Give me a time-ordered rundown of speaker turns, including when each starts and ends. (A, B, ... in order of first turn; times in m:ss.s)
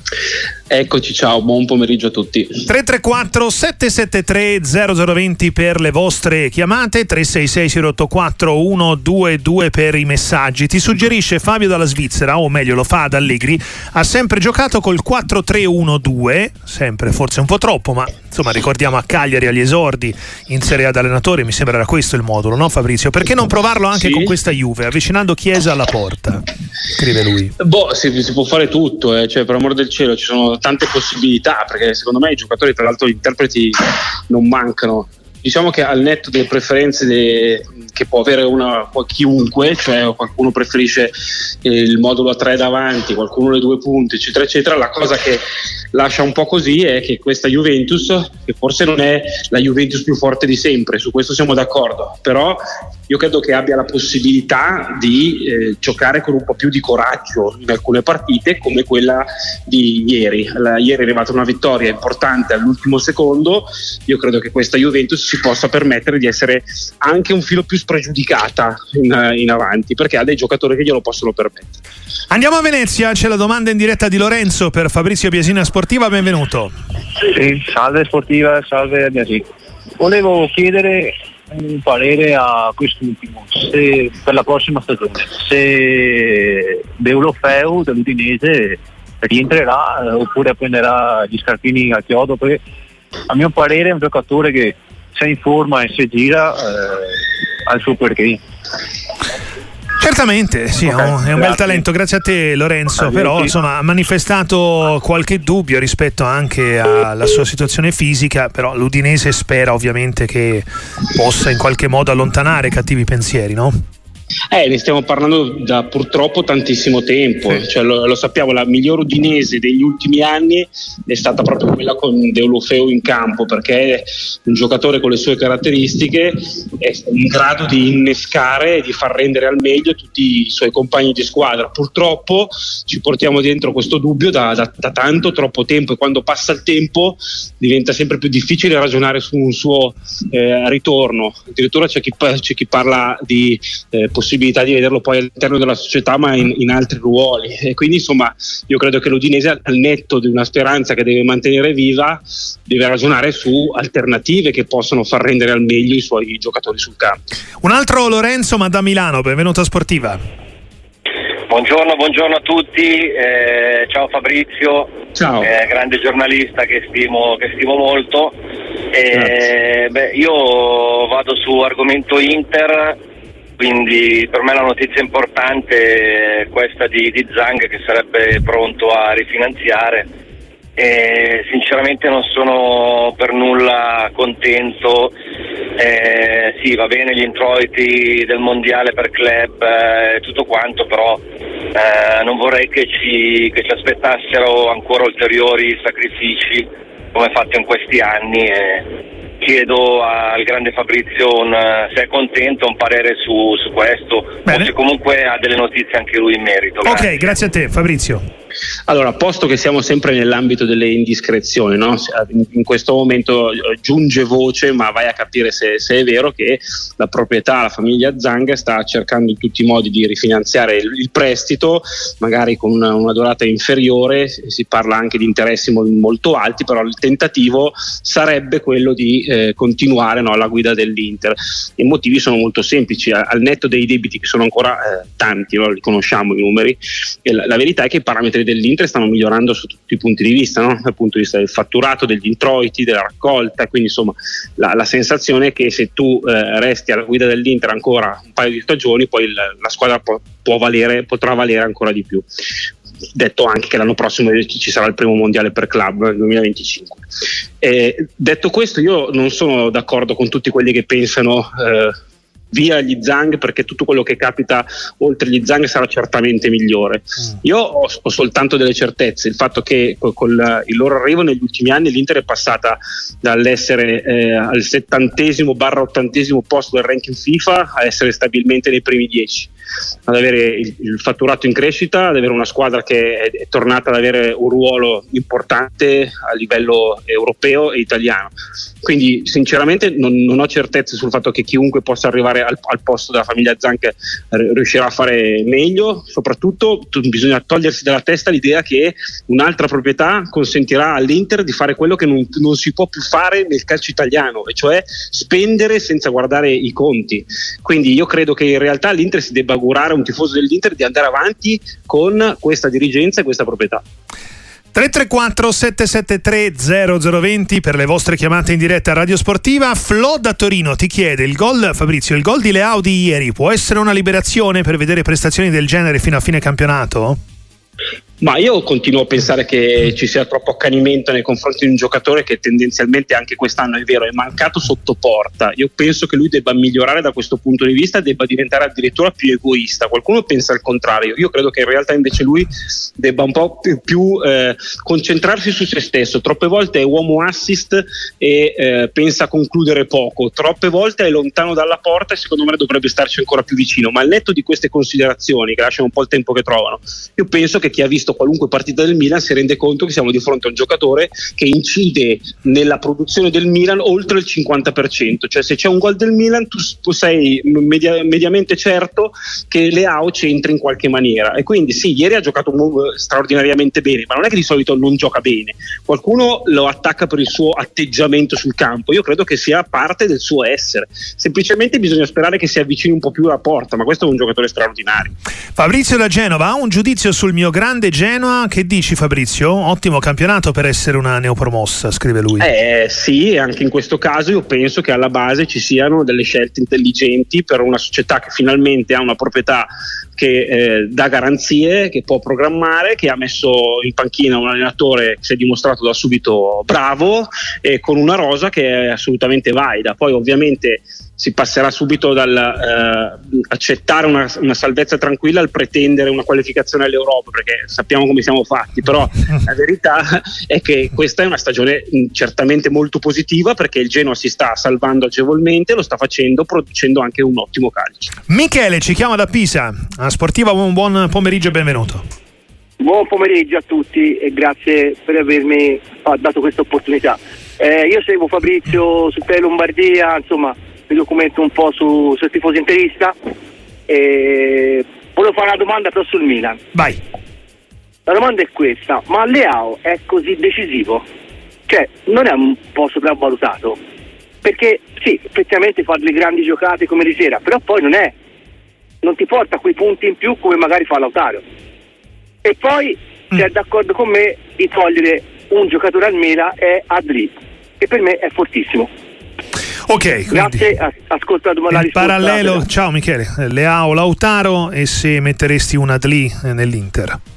0:00.7-0:02.6 A
0:02.6-0:27.5 B
0:23.9-0:24.3 A
0:27.6-0:41.1 A
0:41.6-0:45.4 A
0:45.9-1:11.8 A
1:12.3-1:16.7 B
1:17.3-1:19.5 C
1:20.0-1:32.6 C
1:33.3-1:38.4 C
1:40.0-1:53.8 B
1:40.8-1:41.8 C
1:43.0-1:43.5 C
1:54.5-2:37.2 A
2:37.6-2:40.2 B
2:41.5-2:48.4 D
2:45.1-2:45.5 A
2:48.9-2:53.0 D
2:53.6-3:00.1 D
3:00.8-3:05.1 D
3:05.8-3:27.1 D
3:24.4-3:24.7 B
3:26.8-3:28.2 B
3:28.9-4:12.2 A
4:13.1-4:17.0 A
4:17.6-4:21.9 A
4:22.5-4:39.5 A
4:40.1-5:13.8 A
5:14.7-5:27.2 B
5:28.2-6:25.1 A
6:25.6-6:32.4 B
6:32.4-7:08.1 A
7:08.3-7:12.0 B
7:12.8-7:23.2 E
7:23.9-7:26.6 E
7:26.7-7:27.0 B
7:28.0-7:31.0 E
7:31.7-7:33.8 E
7:34.4-7:38.1 E
7:39.0-7:41.4 E
7:42.4-7:48.9 E
7:49.9-7:50.6 B
7:50.3-7:52.6 E
7:51.7-7:57.2 B